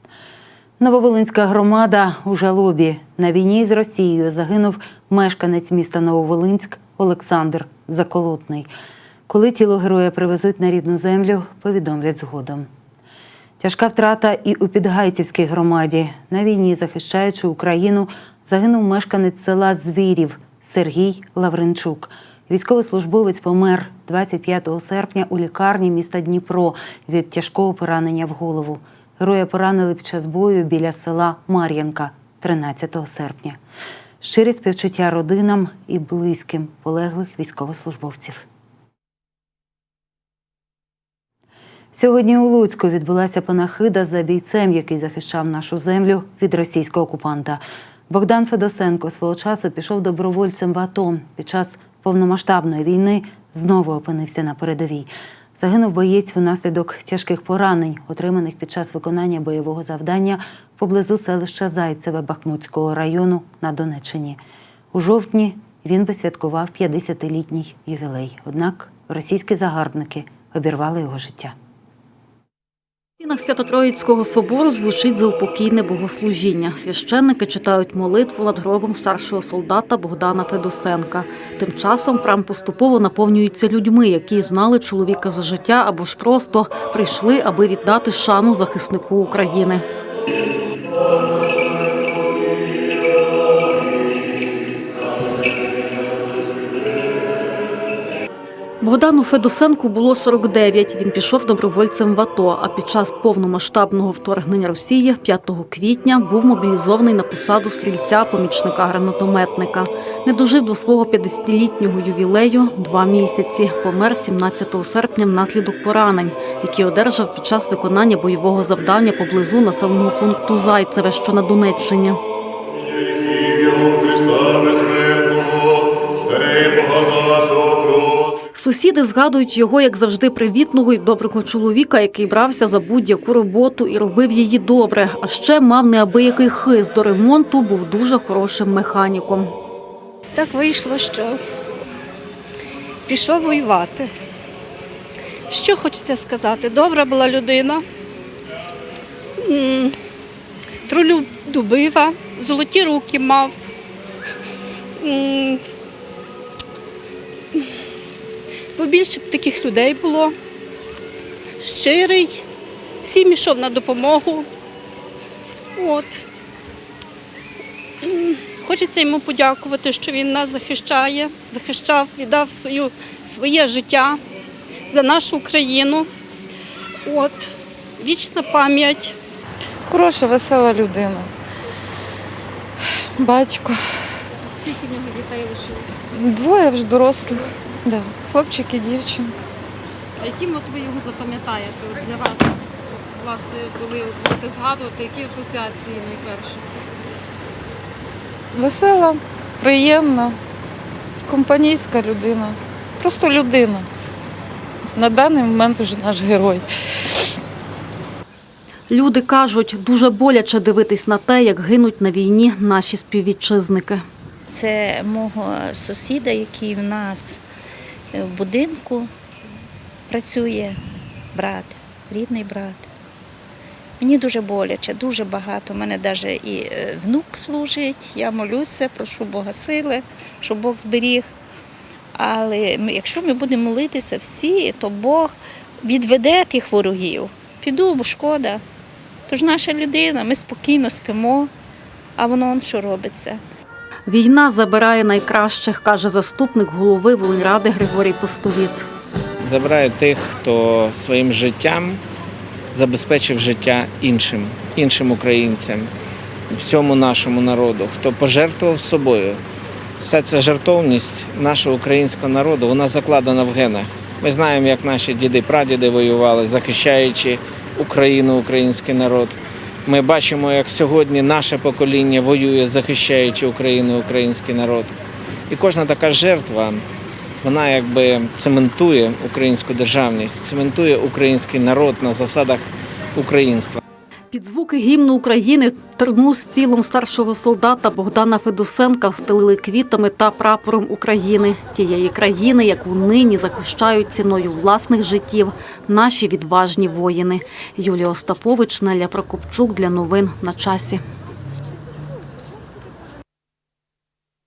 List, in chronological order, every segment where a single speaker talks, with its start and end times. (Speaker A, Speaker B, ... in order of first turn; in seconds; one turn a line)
Speaker A: 0.8-8.7
Speaker A: 9.3-12.7
Speaker A: 13.6-33.6
Speaker A: 34.2-38.5
Speaker A: 41.9-64.4
Speaker A: 64.9-71.5
Speaker B: 73.2-89.8
Speaker B: 98.8-122.2
Speaker B: 128.5-139.5
Speaker C: 140.3-141.4
Speaker C: 143.1-144.1
Speaker C: 145.5-147.8
Speaker C: 149.4-149.9
Speaker C: 150.8-153.5
Speaker C: 155.0-155.6
Speaker C: 158.7-160.3
Speaker C: 161.6-162.4
Speaker C: 163.0-164.5
Speaker C: 165.8-166.2
Speaker C: 168.0-174.2
Speaker C: 174.9-176.1
Speaker C: 177.0-179.2
Speaker D: 179.8-181.3
Speaker D: 183.2-183.8
Speaker B: 184.6-185.8
Speaker D: 186.1-189.4
Speaker B: 190.2-192.4
Speaker B: 193.1-196.6
Speaker D: 198.5-200.4
Speaker D: 201.3-203.9
Speaker D: 204.9-206.6
Speaker B: 208.9-214.0
Speaker E: 214.5-217.4
Speaker E: 218.1-219.1
Speaker E: 220.1-220.8
Speaker E: 221.3-222.9
Speaker E: 224.0-231.3
Speaker E: 232.2-238.6
Speaker E: 239.3-241.5
Speaker E: 242.2-243.4
Speaker B: 244.1-248.8
Speaker F: 249.4-252.0
Speaker F: 252.7-255.9
Speaker F: 256.5-259.4
Speaker F: 260.0-274.9
Speaker F: 275.5-276.8
Speaker F: 277.4-283.8
Speaker B: 284.3-301.0